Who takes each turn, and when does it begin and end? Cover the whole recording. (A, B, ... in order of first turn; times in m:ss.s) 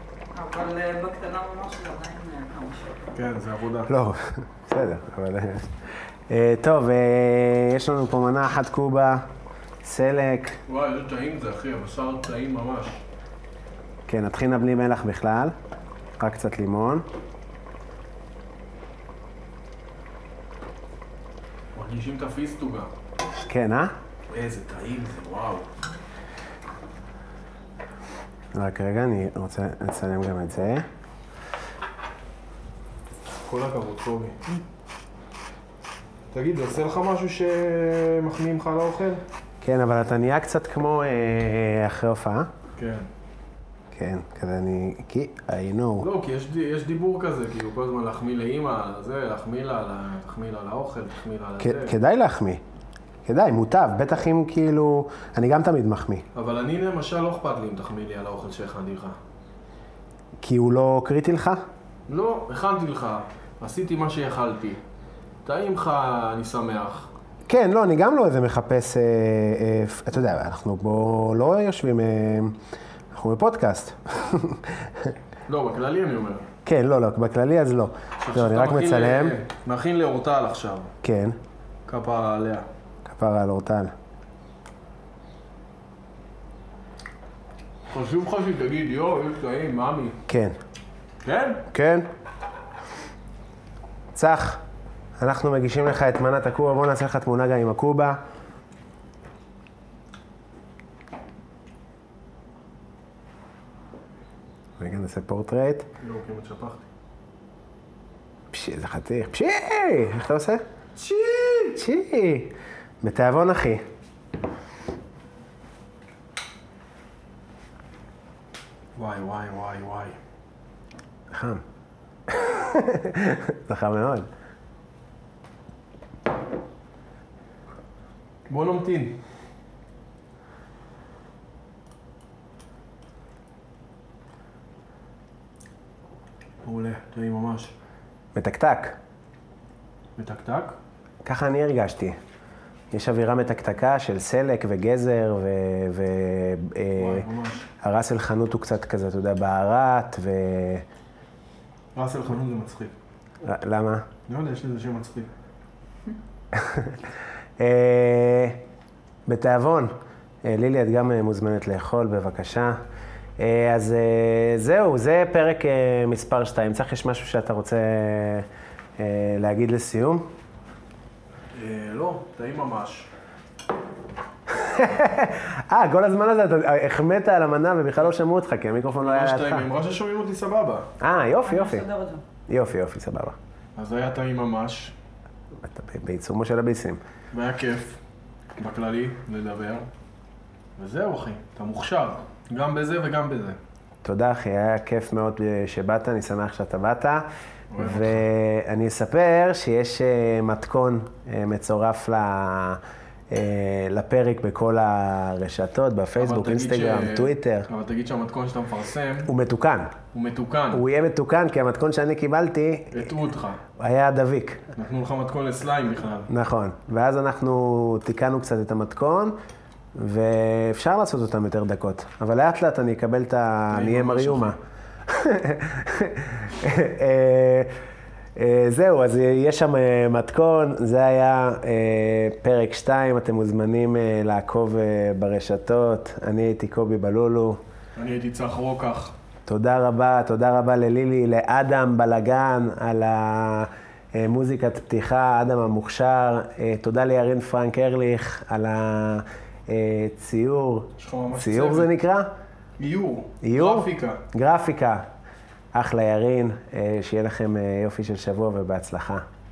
0:00.3-0:03.2 A
0:03.1-0:03.9 B
0:03.9-0:05.8 C
0:06.3-0:09.3 C
0:09.8-0:10.6 C
0:10.7-0:13.0 B
0:14.1-0:15.6 C
0:16.2-0:17.1 C
0:21.8-0:22.9 B
0:23.5-0:23.9 C
0:24.3-0:25.7 B
0:28.5-0:30.9 C
0:33.4-0:34.4 B
0:36.3-0:39.2 B
0:39.6-0:42.5 C
0:42.8-0:43.1 B
0:43.9-0:46.1 C
0:46.0-0:52.0 B
0:51.6-0:52.6 C
0:53.3-0:56.2 C
0:56.4-0:59.2 B
1:00.4-1:01.6 C
1:02.1-1:04.8 B
1:05.4-1:07.1 B
1:07.5-1:12.6 C
1:13.1-1:15.1 C
1:15.5-1:16.5 B
1:16.6-1:19.4 C
1:18.2-1:20.9 B
1:21.0-1:21.4 C
1:21.9-1:22.7 B
1:23.0-1:23.9 C
1:27.9-1:30.2 B
1:30.3-1:30.6 C
1:31.2-1:31.6 B
1:31.7-1:32.1 C
1:34.1-1:34.6 C
1:35.2-1:38.2 C
1:44.8-1:45.9 C
1:46.0-1:46.8 B
1:48.5-1:50.6 C
1:51.0-1:51.8 B
1:51.8-1:53.8 C
1:59.0-2:00.2 B
2:01.3-2:01.6 C
2:02.3-2:04.3 C
2:08.5-2:09.2 B
2:16.6-2:17.7 B
2:18.4-2:19.0 C
2:20.2-2:20.8 B
2:21.2-2:22.2 C
2:22.9-2:27.2 C
2:27.0-2:27.7 B
2:27.8-2:30.8 C
2:32.0-2:32.9 B
2:33.4-2:34.1 C
2:34.3-2:35.3 B
2:36.5-2:37.0 C
2:37.6-2:38.6 C
2:39.3-2:42.8 C
2:43.4-2:48.5 C
2:49.0-2:50.3 C
2:51.5-2:53.1 B
2:54.5-2:59.7 C
2:59.0-3:00.9 B
3:01.0-3:01.8 C
3:01.5-3:02.2 A
3:02.5-3:03.4 C
3:03.8-3:05.0 B
3:05.6-3:07.0 C
3:07.3-3:08.0 B
3:08.6-3:09.9 B
3:10.8-3:13.6 B
3:14.0-3:17.3 C
3:17.7-3:18.2 B
3:17.8-3:27.7 C
3:26.2-3:29.3 B
3:29.3-3:29.9 C
3:30.1-3:30.8 B
3:30.7-3:33.1 C
3:32.9-3:33.6 B
3:33.8-3:34.7 C
3:34.8-3:36.3 B
3:36.3-3:39.4 C
3:40.0-3:47.8 C
3:43.7-3:44.6 B
3:48.4-3:57.6 C
3:58.0-3:59.2 B
3:59.5-4:12.3 C
4:11.0-4:11.9 B
4:12.8-4:14.2 B
4:13.4-4:15.1 C
4:15.7-4:19.2 C